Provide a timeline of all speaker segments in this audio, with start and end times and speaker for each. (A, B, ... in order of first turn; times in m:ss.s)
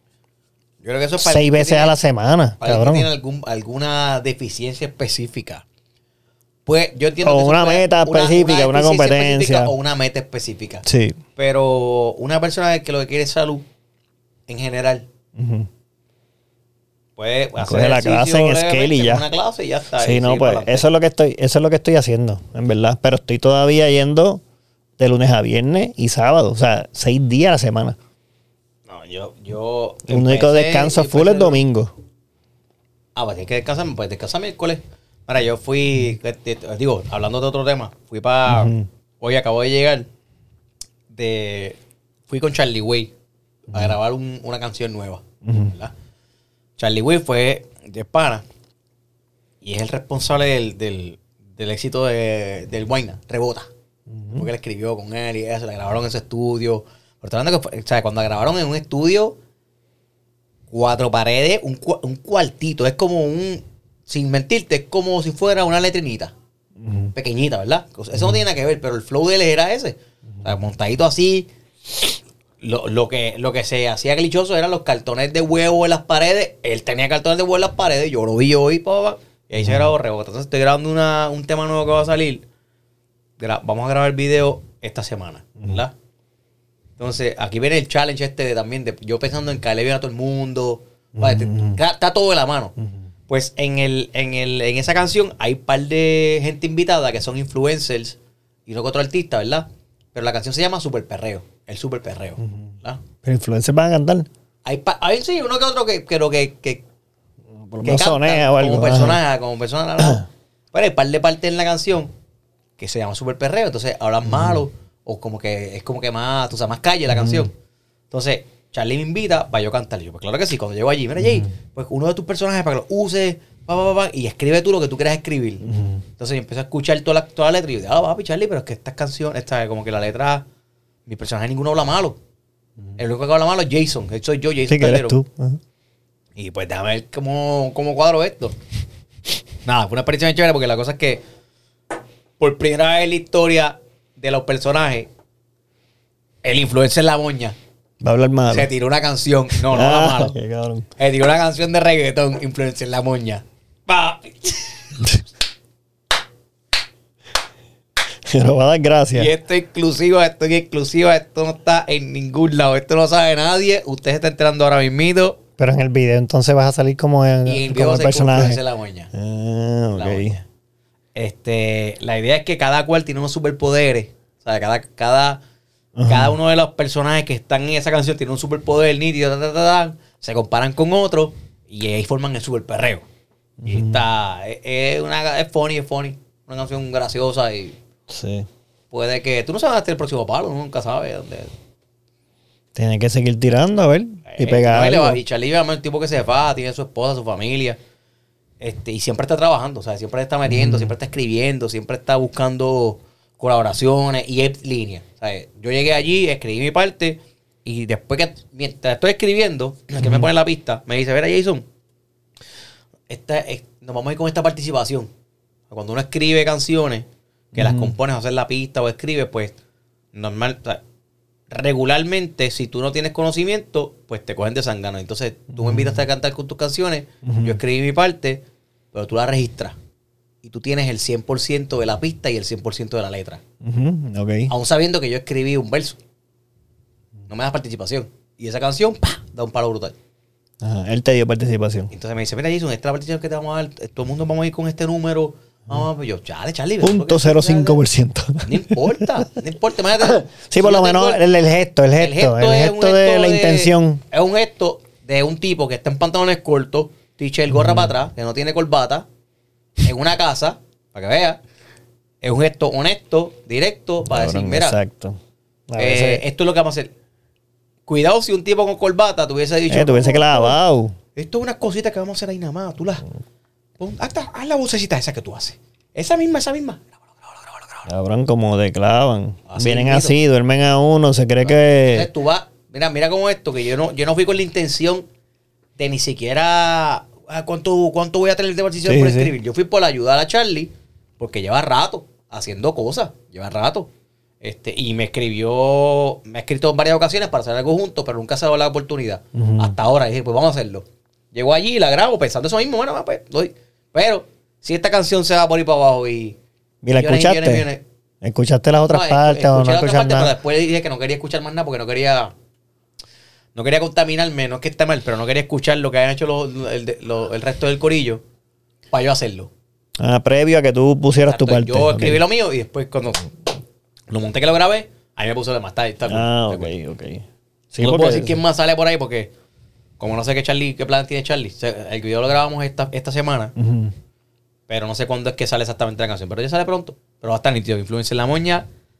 0:00.8-0:02.0 A
0:01.2-0:03.1 B
0:02.6-0:05.6 A
0:06.6-0:10.8 A
0:07.2-0:09.7 B
0:10.8-0:11.2 B
0:11.4-0:13.6 A
0:14.5-0:15.1 A
0:15.4-0:15.7 B
0:17.2-0:20.8 A
0:17.6-0:19.2 B
0:20.0-0:24.4 B
0:25.0-0:28.0 B
0:28.9-0:31.6 A
0:30.1-0:31.9 B
0:33.2-0:40.1 A
0:38.5-0:38.9 B
0:41.1-0:41.8 A
0:42.3-0:43.1 A
0:43.7-0:45.9 A
0:45.4-0:45.7 B
0:46.8-0:48.4 A
0:49.6-0:53.7 A
0:54.1-0:54.5 B
0:54.3-0:59.4 A
1:00.7-1:06.3 A
1:06.8-1:07.1 B
1:07.1-1:12.1 A
1:12.6-1:22.4 A
1:19.6-1:19.9 B
1:23.4-1:25.9 A
1:27.0-1:32.7 A
1:31.2-1:31.8 B
1:33.3-1:43.0 A
1:43.2-1:44.3 B
1:44.6-1:46.8 A
1:47.6-1:49.2 B
1:47.8-1:52.1 A
1:50.0-1:50.2 B
1:52.8-1:57.5 A
1:54.3-1:54.6 B
1:57.1-1:57.5 B
1:58.1-2:10.4 A
2:01.2-2:01.5 B
2:05.6-2:06.0 B
2:11.1-2:12.2 A
2:13.0-2:15.2 A
2:14.7-2:15.6 B
2:16.4-2:18.6 A
2:19.6-2:21.2 A
2:22.4-2:25.1 A
2:26.4-2:27.6 A
2:28.0-2:28.7 B
2:28.5-2:30.4 A
2:29.5-2:30.9 B
2:31.0-2:35.0 A
2:38.2-2:39.3 B
2:39.1-2:45.4 A
2:45.6-2:48.6 B
2:47.4-2:49.1 A
2:49.1-2:50.4 B
2:50.0-2:50.4 A
2:51.1-2:55.4 A
2:56.0-2:56.4 B
2:56.0-3:03.0 A
3:03.6-3:04.0 B
3:03.6-3:07.8 A
3:08.1-3:08.5 B
3:08.9-3:11.5 A
3:12.8-3:15.2 B
3:14.3-3:17.8 A
3:18.6-3:31.6 A
3:20.5-3:20.9 B
3:30.0-3:30.3 B
3:33.1-3:35.1 A
3:35.7-3:39.6 A
3:37.5-3:37.9 B
3:40.1-3:40.8 A
3:41.5-3:49.8 A
3:45.6-3:46.0 B
3:47.2-3:47.6 B
3:50.4-3:53.4 A
3:53.6-3:54.5 B
3:54.5-3:56.0 A
3:57.3-4:00.0 A
4:00.6-4:01.9 B
4:01.9-4:07.8 A
4:06.8-4:09.2 B
4:08.4-4:11.2 A
4:10.0-4:14.0 B
4:12.0-4:19.0 A
4:17.5-4:17.9 B
4:19.8-4:21.4 A
4:22.2-4:24.8 A
4:24.1-4:25.2 B
4:25.7-4:26.2 B
4:25.8-4:26.9 A
4:27.9-4:30.6 A
4:29.7-4:31.0 B
4:31.2-4:33.0 A
4:33.8-4:37.9 A
4:37.9-4:42.1 B
4:39.5-4:40.2 A
4:41.4-4:45.0 A
4:45.8-4:53.9 A
4:48.8-4:49.3 B
4:54.4-5:06.4 A
4:59.3-4:59.8 B
5:06.8-5:07.6 B
5:07.0-5:07.8 A
5:08.2-5:10.3 B
5:08.9-5:12.3 A
5:13.5-5:18.2 A
5:18.9-5:19.5 A
5:20.0-5:22.2 B
5:21.2-5:23.3 A
5:24.1-5:26.7 A
5:26.1-5:28.4 B
5:27.8-5:29.3 A
5:30.0-5:33.5 A
5:33.6-5:33.9 B
5:34.7-5:38.7 A